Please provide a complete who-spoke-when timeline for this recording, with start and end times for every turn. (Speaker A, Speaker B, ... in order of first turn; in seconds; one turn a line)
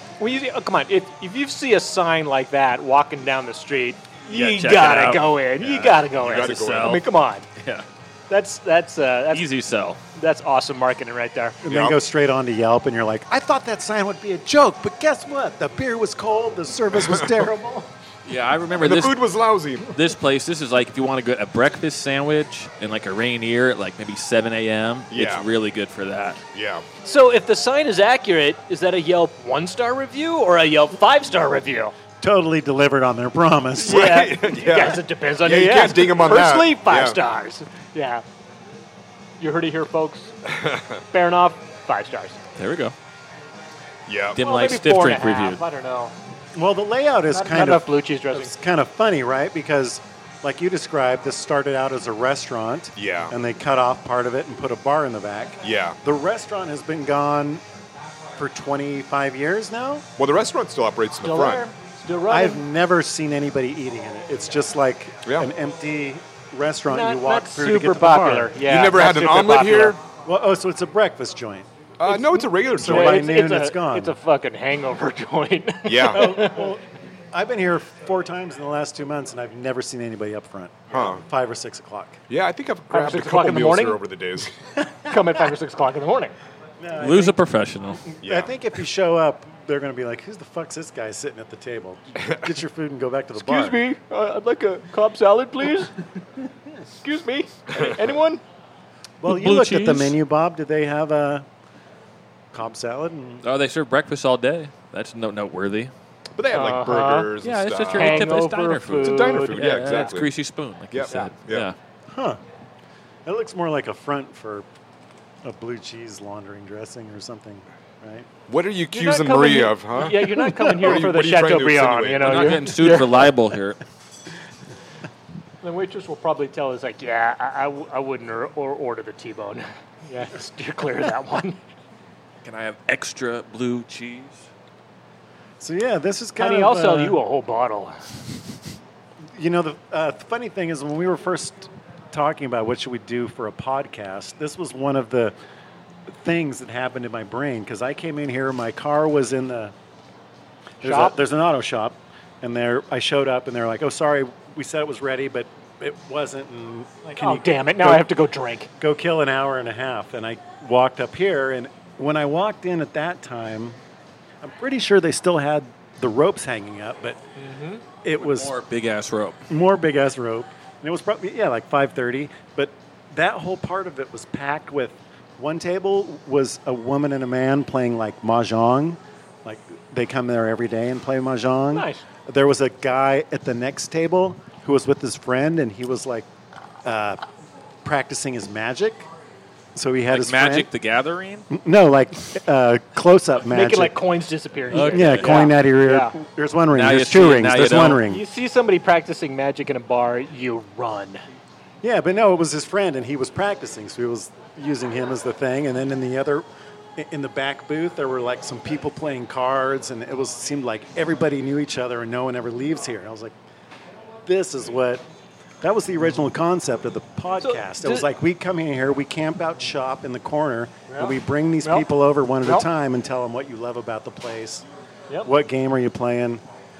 Speaker A: 0.2-7.5
Speaker B: 4.3-7.0
Speaker C: 6.2-7.0
Speaker B: 7.5-7.8
Speaker A: 8.3-9.5
Speaker B: 9.3-10.0
Speaker A: 10.1-11.6
Speaker D: 11.6-17.9
Speaker C: 11.7-12.0
Speaker C: 17.0-17.3
Speaker B: 18.2-19.2
Speaker C: 18.8-19.9
Speaker B: 19.9-26.4
Speaker C: 25.1-25.5
Speaker C: 26.5-26.9
Speaker A: 27.0-31.9
Speaker D: 32.2-34.2
Speaker A: 33.8-38.2
Speaker C: 33.8-37.2
Speaker A: 39.4-40.3
Speaker C: 40.5-41.0
Speaker A: 41.1-42.4
Speaker B: 42.6-42.9
Speaker C: 44.1-44.4
Speaker B: 44.3-45.6
Speaker A: 44.4-46.1
Speaker D: 46.5-57.6
Speaker A: 47.3-48.5
Speaker C: 53.0-53.3
Speaker C: 55.6-56.0
Speaker D: 58.4-60.0
Speaker C: 60.2-61.7
Speaker A: 61.2-62.6
Speaker D: 62.3-68.5
Speaker A: 66.9-70.0
Speaker C: 68.6-70.0
Speaker D: 70.2-71.7
Speaker C: 72.0-73.3
Speaker A: 72.4-76.7
Speaker D: 72.6-74.1
Speaker C: 75.8-76.4
Speaker D: 76.1-82.2
Speaker C: 80.9-81.2
Speaker C: 82.3-84.5
Speaker A: 82.9-84.0
Speaker A: 85.0-86.3
Speaker D: 86.8-87.4
Speaker B: 87.0-88.0
Speaker D: 88.0-93.8
Speaker C: 88.2-88.5
Speaker A: 93.4-96.0
Speaker A: 97.0-98.4
Speaker D: 99.2-101.5
Speaker B: 99.2-100.2
Speaker D: 102.5-103.4
Speaker B: 103.4-105.9
Speaker C: 106.3-108.3
Speaker A: 106.5-107.3
Speaker B: 107.4-111.8
Speaker A: 107.9-110.1
Speaker C: 109.0-110.3
Speaker C: 110.9-111.7
Speaker D: 112.1-112.4
Speaker D: 113.2-114.7
Speaker D: 115.4-118.3
Speaker C: 118.5-122.7
Speaker A: 118.9-123.3
Speaker B: 122.2-123.8
Speaker A: 125.6-131.6
Speaker B: 132.4-134.4
Speaker D: 135.6-137.2
Speaker A: 136.4-138.1
Speaker D: 139.3-145.3
Speaker D: 146.1-149.7
Speaker D: 150.8-158.1
Speaker A: 150.8-151.2
Speaker A: 157.0-158.7
Speaker D: 158.8-163.8
Speaker D: 164.4-167.2
Speaker A: 167.3-167.8
Speaker D: 168.0-168.6
Speaker B: 168.2-169.4
Speaker D: 169.5-186.3
Speaker A: 181.7-182.0
Speaker D: 186.8-187.2
Speaker D: 187.8-189.1
Speaker D: 189.7-190.7
Speaker B: 190.1-191.5
Speaker D: 191.5-193.9
Speaker A: 193.5-196.1
Speaker B: 194.7-195.5
Speaker D: 194.8-198.2
Speaker B: 196.7-198.0
Speaker A: 198.0-201.2
Speaker D: 201.8-206.4
Speaker D: 207.0-213.3
Speaker D: 214.2-215.0
Speaker D: 215.6-224.7
Speaker A: 217.4-218.1
Speaker A: 220.9-221.9
Speaker D: 225.2-226.4